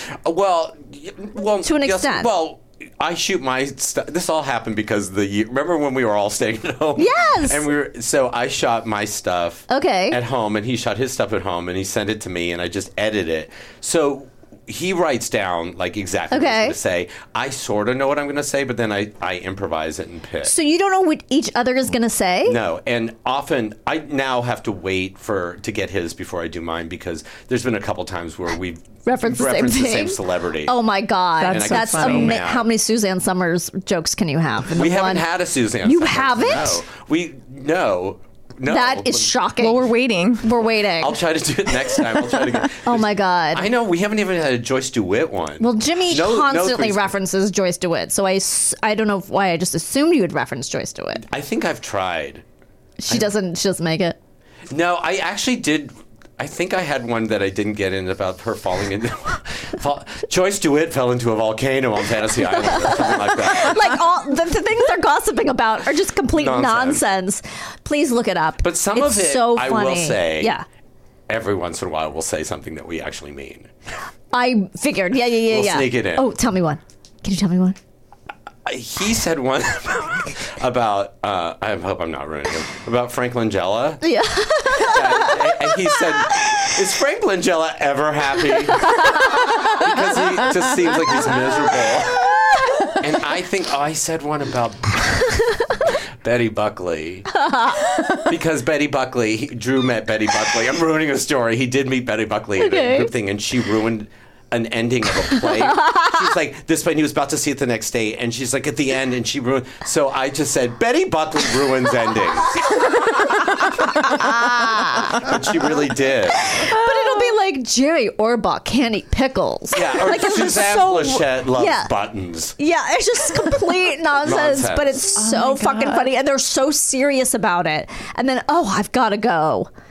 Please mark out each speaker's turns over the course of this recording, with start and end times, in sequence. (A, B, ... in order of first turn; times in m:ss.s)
0:00.2-0:20.5 A
0:01.6-0:02.3 B
0:07.0-0:07.7 B
0:09.7-0:10.2 B
0:16.3-0:16.8 B
0:20.4-0:22.6 B
0:22.4-0:30.7 A
0:29.0-0:35.3 B
0:31.4-0:32.4 C
0:31.4-0:32.7 A
0:34.7-0:39.3 A
0:35.8-0:36.8 B
0:38.6-0:39.9 B
0:39.6-0:40.4 C
0:40.4-0:41.2 B
0:41.0-0:47.1 A
0:42.8-0:43.7 B
0:45.6-0:51.2 B
0:51.2-0:52.4 A
0:53.0-0:54.2 B
0:54.7-1:04.0 A
1:02.5-1:10.6 B
1:06.3-1:07.0 A
1:08.6-1:10.6 A
1:11.3-1:13.7 A
1:14.3-1:17.8 B
1:15.5-1:16.3 A
1:18.6-1:24.0 A
1:24.0-1:26.6 B
1:24.8-1:32.4 A
1:28.8-1:29.1 B
1:33.0-1:35.5 A
1:36.2-1:37.4 A
1:38.3-1:53.0 A
1:42.6-1:43.1 B
1:54.0-1:56.5 A
1:54.1-1:55.3 B
1:56.3-2:01.9 B
1:56.7-1:57.3 C
1:59.7-2:02.6 A
2:02.6-2:09.7 B
2:04.2-2:05.1 A
2:05.2-2:06.1 C